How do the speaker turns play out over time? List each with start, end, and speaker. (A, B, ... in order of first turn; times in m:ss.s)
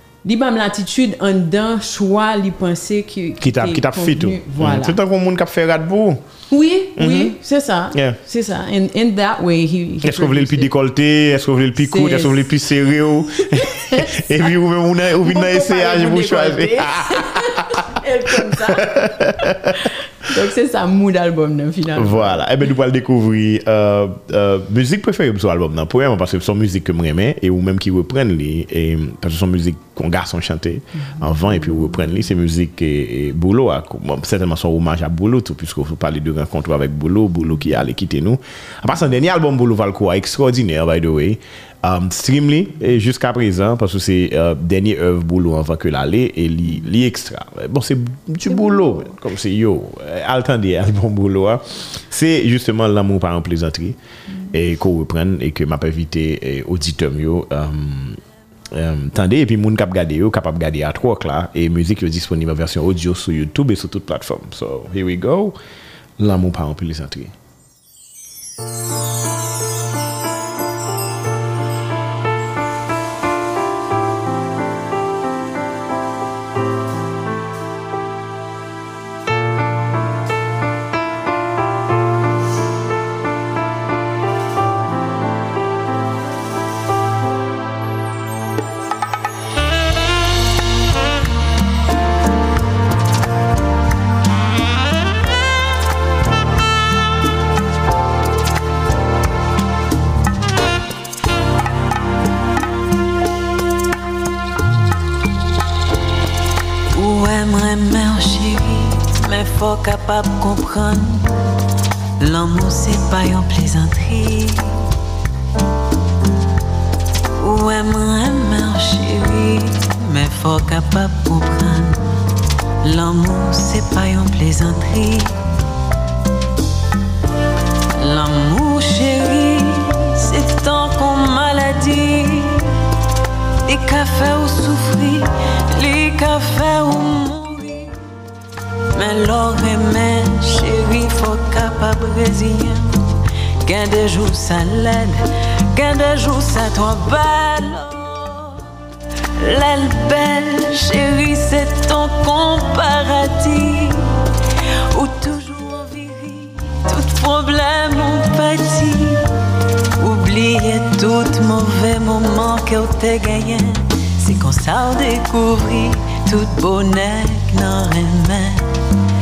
0:00.2-0:05.0 A
0:03.4-0:06.2 B
0:06.5-0:10.7 A
0:07.0-0:07.3 B
0:07.9-0:08.2 B
0:10.0-0:19.9 B
0:11.8-0:12.5 A
0:13.3-0:22.5 A
0:21.9-0:54.0 B
0:54.5-1:05.6 B
1:06.2-1:07.3 B
1:46.9-1:51.5 C
1:52.2-1:54.9 C
1:57.3-2:02.2 C
2:02.8-2:05.5 C
2:08.0-2:12.9 C
2:13.6-2:18.0 C
2:18.9-2:28.8 C
2:29.4-2:48.8 C